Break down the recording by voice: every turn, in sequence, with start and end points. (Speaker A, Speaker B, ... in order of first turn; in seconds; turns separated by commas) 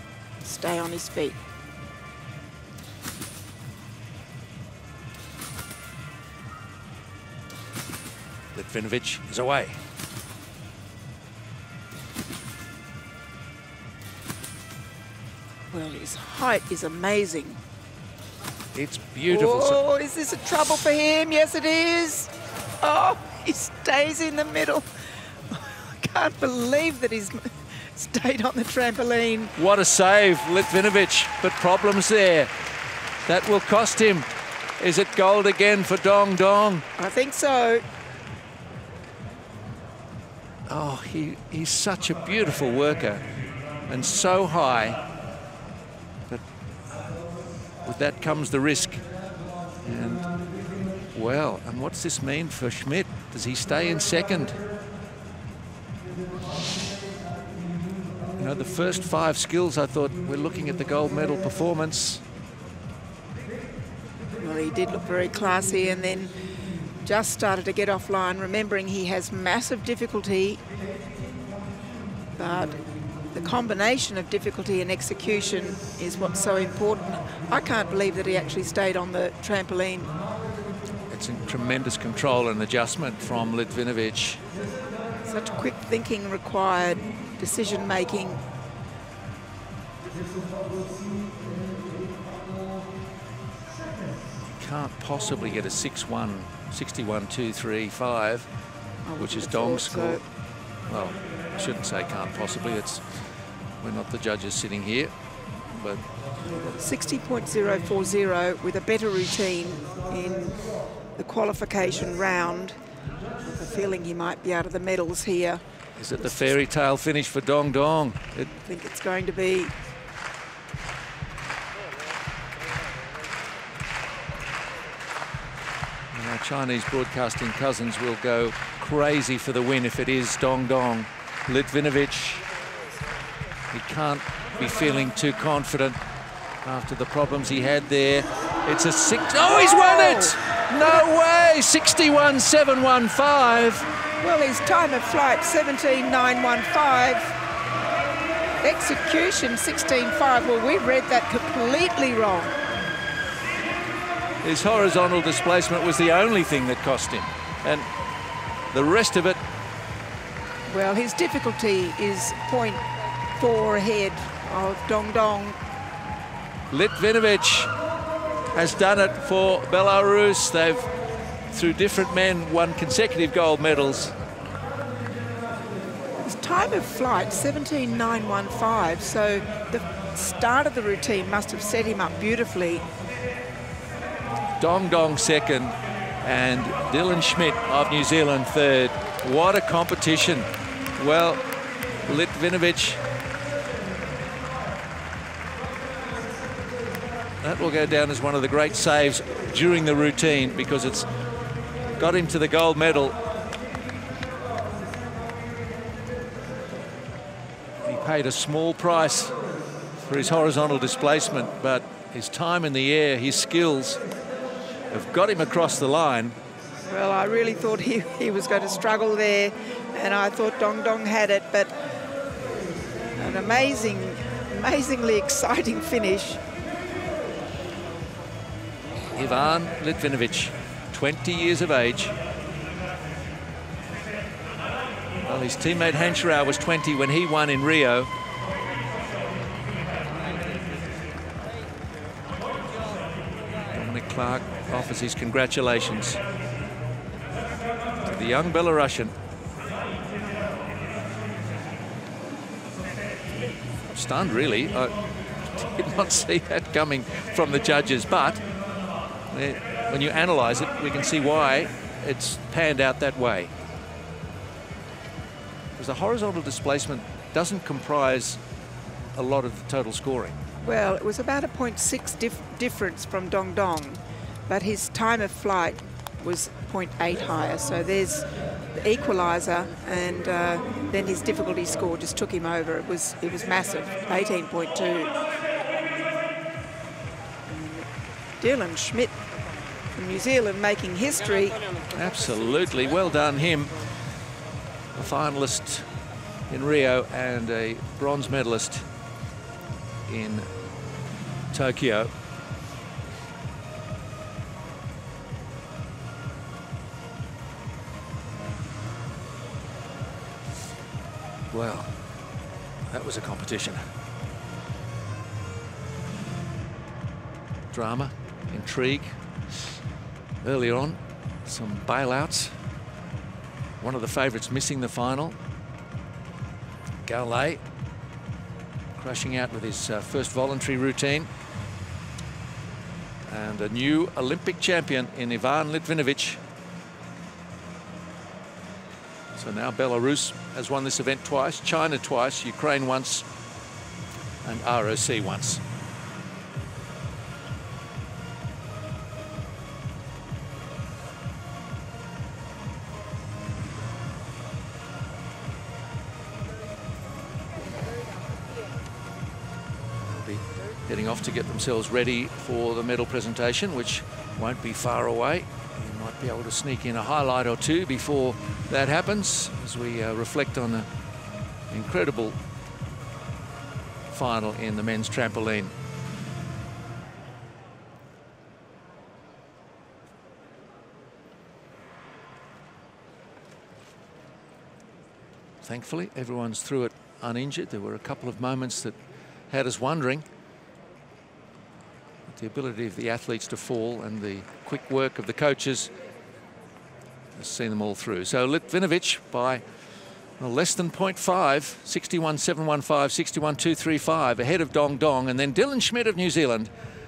Speaker A: 0.4-1.4, Speaker B: 8.5-9.8, Speaker A: 15.7-17.6, Speaker B: 18.7-19.8, Speaker A: 19.3-24.9, Speaker A: 25.5-29.5, Speaker B: 29.6-32.5, Speaker B: 33.2-36.9, Speaker A: 37.0-37.9, Speaker B: 40.7-43.3, Speaker B: 43.9-45.0, Speaker B: 47.8-49.1, Speaker B: 49.8-50.3, Speaker B: 51.1-54.6, Speaker B: 58.4-62.2, Speaker A: 64.4-66.4, Speaker A: 67.0-70.6, Speaker A: 72.4-72.8, Speaker A: 73.3-80.1, Speaker B: 81.1-84.4, Speaker A: 85.2-88.4, Speaker B: 94.6-98.5, Speaker A: 99.0-100.2, Speaker B: 99.2-100.2, Speaker B: 100.9-103.1, Speaker B: 103.8-105.1, Speaker B: 105.7-106.0, Speaker A: 106.4-112.8, Speaker A: 113.4-115.6, Speaker B: 116.0-118.5, Speaker A: 118.6-119.7, Speaker B: 126.1-132.4, Speaker B: 133.7-136.0, Speaker B: 136.6-143.9, Speaker A: 139.4-141.0, Speaker A: 144.2-147.3, Speaker A: 148.6-152.6, Speaker B: 154.4-157.9, Speaker B: 158.7-159.4, Speaker A: 160.7-162.8, Speaker A: 163.4-165.6, Speaker B: 166.7-167.7, Speaker B: 168.6-170.9, Speaker B: 171.5-174.2, Speaker A: 176.2-182.8, Speaker B: 184.6-191.4, Speaker B: 192.0-193.0, Speaker B: 197.4-201.1, Speaker B: 202.0-203.2, Speaker B: 207.8-209.3, Speaker B: 209.9-214.0, Speaker B: 214.9-216.4, Speaker A: 216.9-221.8, Speaker A: 223.2-226.4, Speaker B: 229.1-232.2, Speaker B: 235.2-238.1, Speaker B: 243.7-246.2, Speaker B: 248.0-249.1, Speaker B: 253.9-258.4, Speaker B: 259.3-263.5, Speaker B: 265.8-268.4, Speaker B: 269.1-270.4, Speaker A: 270.6-285.2, Speaker A: 287.5-287.9, Speaker A: 288.4-289.1, Speaker A: 289.9-291.6, Speaker B: 291.9-294.0, Speaker B: 294.9-295.9, Speaker B: 296.5-298.9, Speaker B: 300.1-300.5, Speaker B: 301.5-302.1, Speaker B: 311.5-312.0, Speaker B: 312.9-313.8, Speaker B: 317.7-319.8, Speaker B: 320.4-322.6, Speaker B: 323.8-325.4, Speaker B: 327.0-327.6, Speaker B: 328.9-331.3, Speaker B: 333.3-336.4, Speaker B: 339.4-343.3, Speaker B: 344.4-345.6, Speaker B: 360.0-370.9, Speaker B: 371.7-372.4, Speaker B: 374.1-375.7, Speaker B: 385.6-389.0, Speaker B: 389.5-390.3, Speaker B: 392.3-395.9, Speaker B: 397.4-399.6, Speaker B: 400.4-406.7